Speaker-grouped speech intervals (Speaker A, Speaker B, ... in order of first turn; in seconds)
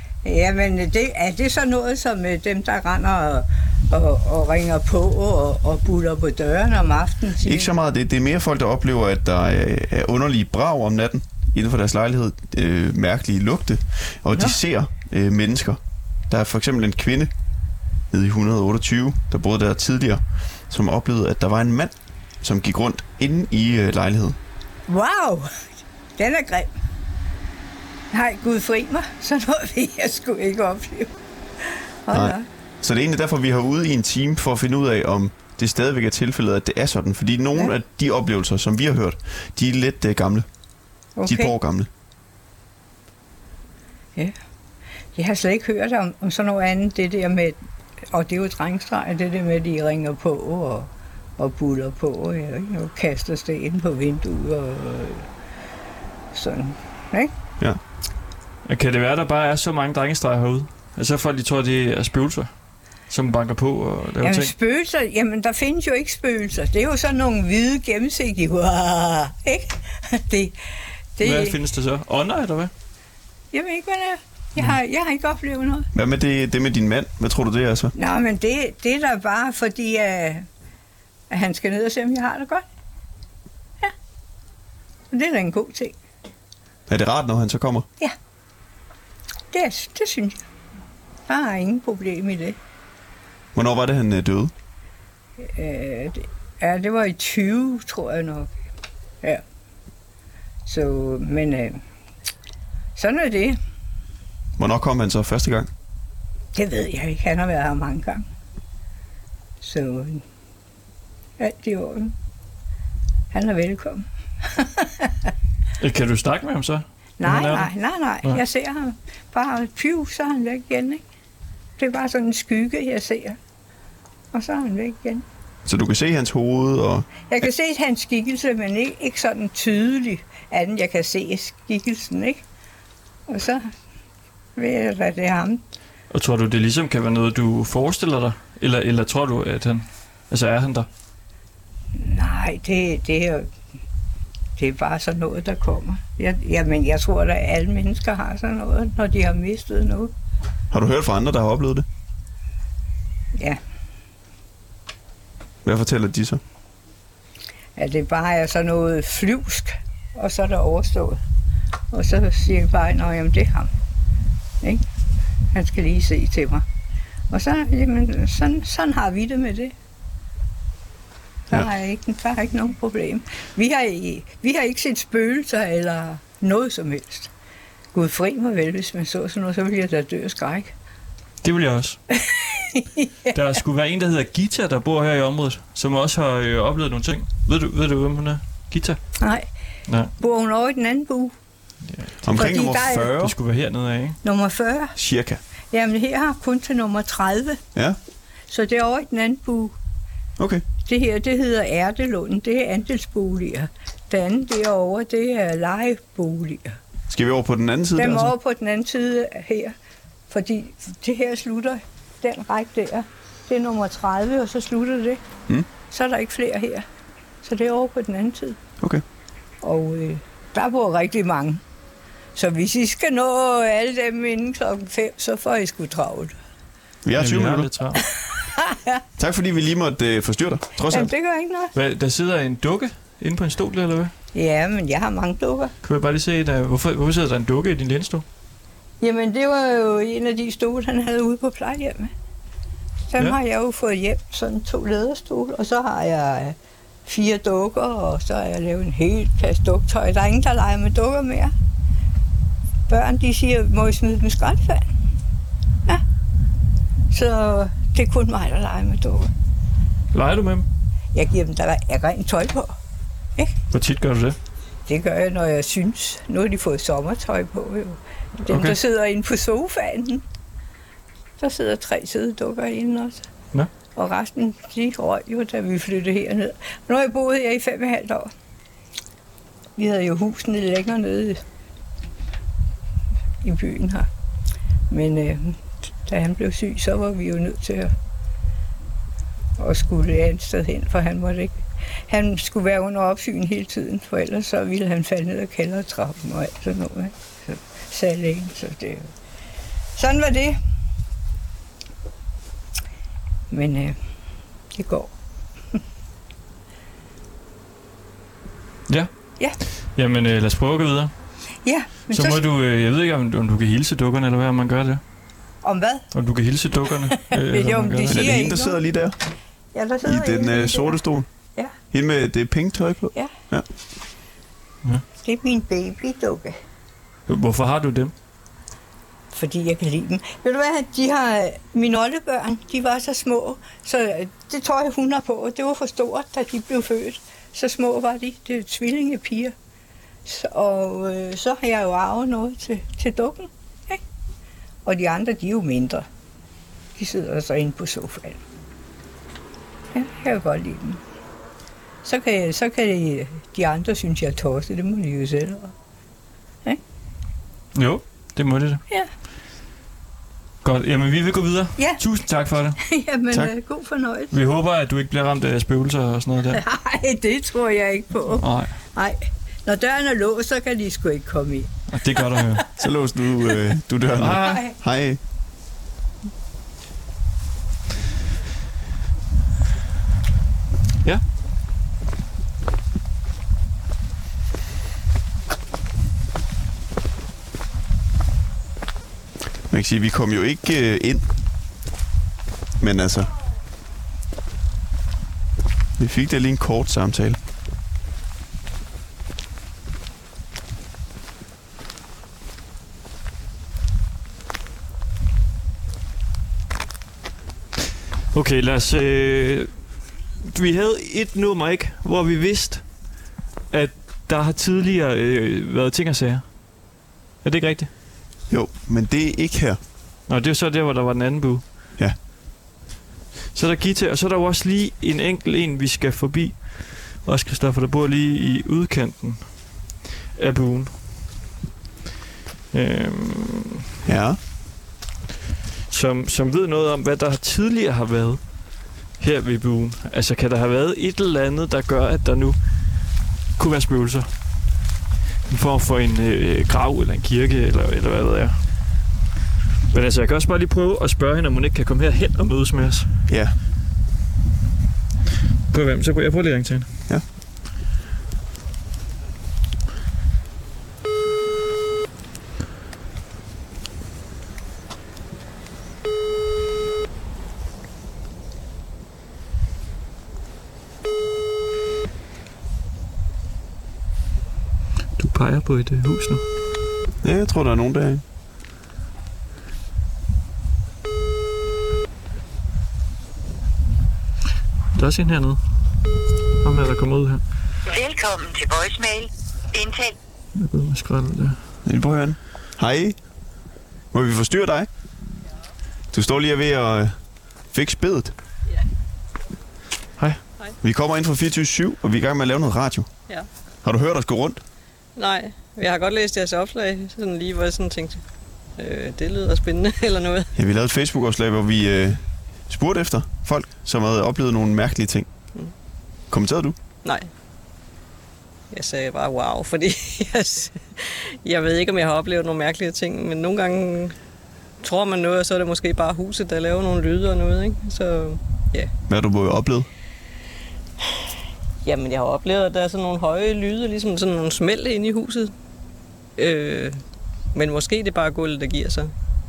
Speaker A: 0.2-7.7, 24.9-25.5, 26.2-26.7, 28.1-31.1, 32.1-32.5, 41.2-41.6, 45.1-47.6, 48.1-55.3, 56.3-57.3, 64.2-70.6, 71.2-71.6, 73.5-75.9, 78.0-80.5, 81.3-82.7, 85.1-86.0, 89.5-90.4, 91.3-92.6, 95.4-98.5, 100.7-101.8, 103.0-103.6, 106.5-108.2, 109.6-110.2, 111.4-112.1, 113.3-115.3, 117.2-121.0, 121.8-123.4, 124.3-125.2, 127.3-132.4, 133.3-133.7, 134.6-135.6, 142.0-143.5, 144.6-150.1, 153.3-153.6, 157.8-161.2, 161.9-163.7, 165.5-166.7, 167.3-169.7, 171.5-177.3, 177.9-180.7, 182.1-183.4, 189.2-189.5, 190.2-191.4, 192.4-193.3, 194.2-195.0, 195.7-197.6, 198.5-199.8, 200.8-206.8, 208.0-209.8, 210.3-215.2, 215.9-216.8, 217.4-218.6, 219.6-221.6, 222.3-226.4, 228.0-229.0, 230.9-231.7, 234.3-235.7, 239.0-242.1, 243.1-251.5, 252.9-254.9, 257.1-259.3, 261.1-262.8, 264.9-270.2, 271.4-273.3, 273.9-278.3, 279.8-281.4, 283.4-284.1, 284.9-287.9, 289.6-299.1, 300.0-300.6, 303.5-304.0, 304.7-305.1, 311.6-312.4, 315.6-316.1, 317.0-318.8, 319.7-321.0, 325.2-326.6, 329.3-339.6, 340.2-344.0, 344.9-346.1, 347.0-348.4, 349.9-351.0, 352.0-355.7, 362.8-364.3, 366.5-372.6, 374.4-374.8
Speaker B: 7.4-15.8, 16.3-17.3, 18.1-24.4, 32.1-40.5, 41.3-41.9, 75.9-77.9, 86.9-87.9, 93.5-94.5, 104.6-105.7, 125.7-127.5, 150.7-151.9, 155.7-156.4, 192.2-193.3, 195.0-195.4, 200.4-200.7, 207.1-208.3, 227.1-227.7, 229.2-231.1, 318.1-319.2, 320.0-321.3, 321.9-323.7, 372.8-375.2, 389.7-391.2, 392.8-393.3, 396.0-397.4, 418.5-419.8, 434.1-434.4, 453.3-453.5, 477.2-478.2, 491.9-493.2, 494.1-494.9, 496.1-497.2, 497.7-498.3, 500.8-503.1, 503.8-504.6, 510.6-515.3, 516.3-516.8, 529.1-529.9
Speaker C: 58.7-62.5, 63.1-64.5, 71.2-72.7, 115.8-117.7, 136.1-140.9, 181.4-182.0, 183.3-189.0, 191.9-194.2, 227.2-228.0, 231.7-234.1, 235.8-238.2, 260.1-260.7, 263.7-264.4, 268.4-268.8, 309.9-311.1, 312.1-315.0, 316.1-318.4, 327.3-328.1, 357.8-358.8, 360.6-362.8, 364.3-366.6, 368.4-368.8, 371.9-372.6, 374.2-374.6, 408.3-416.8, 417.4-417.9, 420.3-421.6, 423.5-429.8, 430.4-431.1, 432.7-433.8, 435.9-444.3, 445.5-448.6, 449.9-453.1, 455.7-456.9, 475.2-476.4, 484.9-485.6, 486.6-487.4, 490.6-491.6
Speaker D: 487.9-490.1
Speaker E: 505.2-508.2, 508.8-510.5, 517.0-517.3, 518.7-524.1, 524.8-528.9, 531.8-535.5, 536.4-537.0, 537.5-539.1